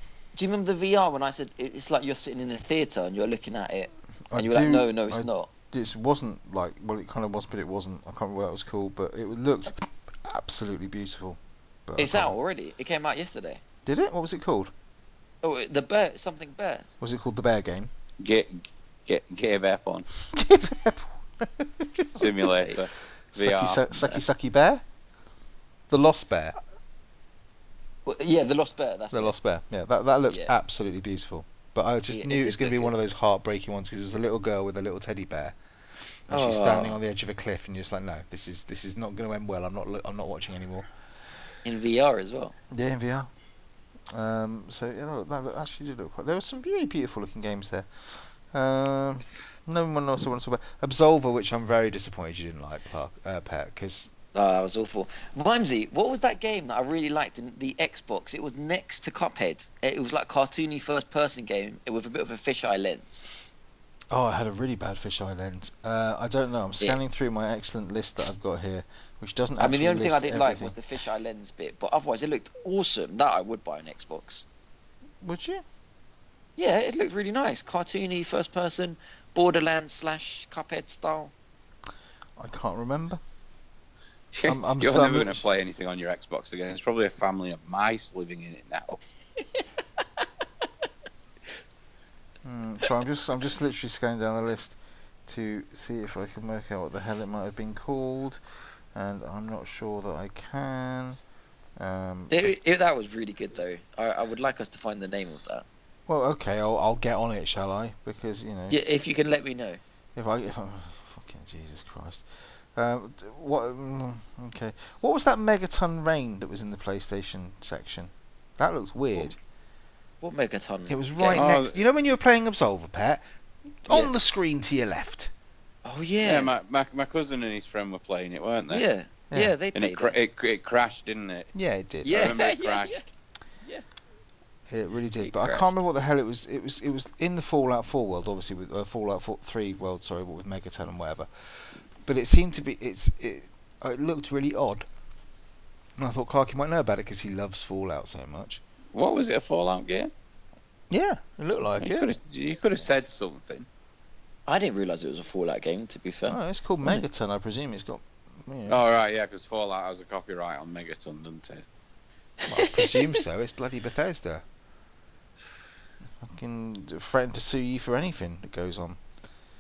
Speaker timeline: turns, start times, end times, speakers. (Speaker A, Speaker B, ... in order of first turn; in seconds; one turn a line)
Speaker A: 0.3-5.5
Speaker B: 4.3-12.3
Speaker A: 12.0-13.6
Speaker B: 13.9-14.7
Speaker A: 15.4-16.9
Speaker B: 17.0-17.9
Speaker C: 18.2-20.1
Speaker B: 20.3-22.3
Speaker C: 22.2-24.2
Speaker B: 23.3-24.8
Speaker B: 25.9-26.6
Speaker A: 28.1-29.3
Speaker B: 29.1-35.6
Speaker A: 30.3-30.5
Speaker A: 32.1-33.0
Speaker B: 36.3-40.9
Speaker A: 36.3-37.0
Speaker A: 41.6-42.5
Speaker B: 42.7-43.3
Speaker B: 44.1-54.1
Speaker A: 54.3-63.2
Speaker B: 64.1-70.8
Speaker A: 69.6-74.4
Speaker B: 75.2-75.6
Speaker A: 76.6-81.3
Speaker B: 82.4-83.2
Speaker C: 84.3-89.0
Speaker B: 84.5-85.4
Speaker B: 92.4-98.4
Speaker B: 99.0-101.2
Speaker B: 101.8-102.5
Speaker A: 102.3-105.7
Speaker B: 106.1-108.8
Speaker A: 108.7-109.8
Speaker B: 110.2-112.2
Speaker B: 112.8-119.4
Speaker A: 120.2-121.5
Speaker B: 120.9-123.2
Speaker C: 121.3-121.8
Speaker B: 123.8-125.3
Speaker A: 125.8-126.5
Speaker C: 126.2-128.8
Speaker A: 128.7-130.2
Speaker C: 129.8-131.5
Speaker B: 131.5-132.3
Speaker A: 132.0-133.1
Speaker C: 132.1-133.0
Speaker B: 134.7-141.3
Speaker A: 135.2-135.7
Speaker B: 142.1-144.9
Speaker B: 146.0-148.6
Speaker C: 148.9-150.1
Speaker B: 150.9-152.1
Speaker C: 151.8-153.7
Speaker A: 154.5-157.0
Speaker B: 156.3-158.8
Speaker C: 158.7-161.7
Speaker A: 162.5-163.2
Speaker B: 162.5-164.4
Speaker B: 166.2-169.0